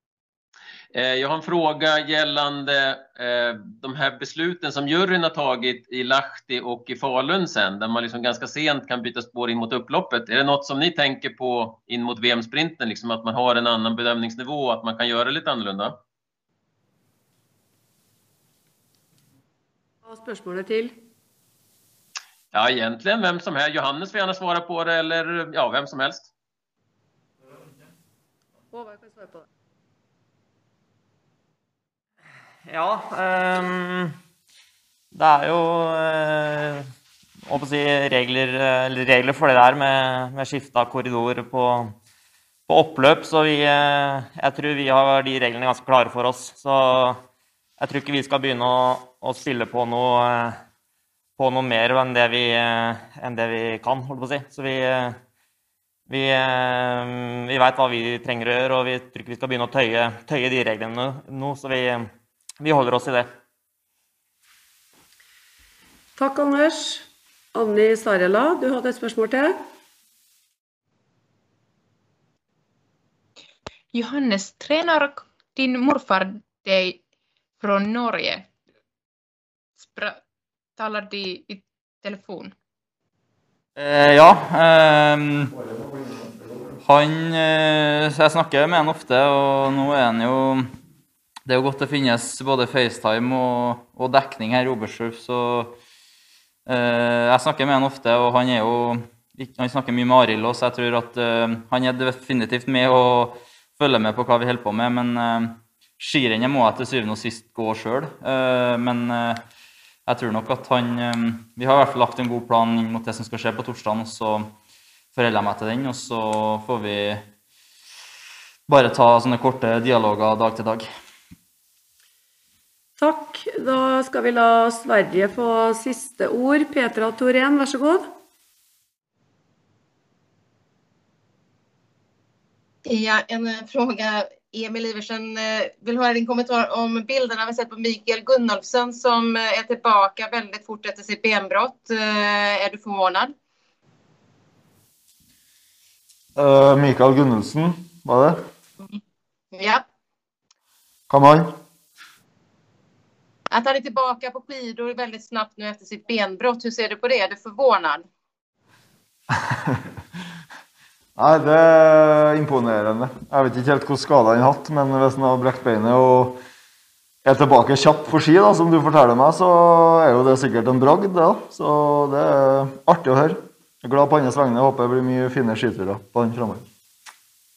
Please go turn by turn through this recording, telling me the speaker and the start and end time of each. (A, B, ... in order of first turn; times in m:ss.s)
0:00.9-0:16.0 A
0:20.0-0:21.0 B
0:22.5-0:26.3 A
0:28.7-0:29.5 B
0:32.6-0:34.1 C
0:35.1-0:36.8 C
0:37.5-0:41.9 C
0:42.7-0:47.2 C
0:47.8-0:50.6 C
0:51.4-0:55.2 C
0:56.1-1:02.1 C
1:02.6-1:03.3 C
1:06.2-1:09.6 B
1:13.9-1:17.0 D
1:17.6-1:18.5 D
1:19.8-1:20.2 D
1:20.8-1:22.5 D
1:23.8-1:25.6 E
1:26.8-1:30.7 E
1:31.5-1:35.8 E
1:36.7-1:49.4 E
1:50.1-1:54.5 E
1:55.1-1:57.3 E
1:58.7-2:00.9 E
2:03.0-2:08.1 B
2:12.9-2:23.3 F
2:26.4-2:28.4 G
2:29.5-2:29.8 F
2:31.1-2:31.6 G
2:33.5-2:38.0 F
2:39.4-2:39.9 G
2:41.2-2:46.4 G
2:47.2-2:56.7 G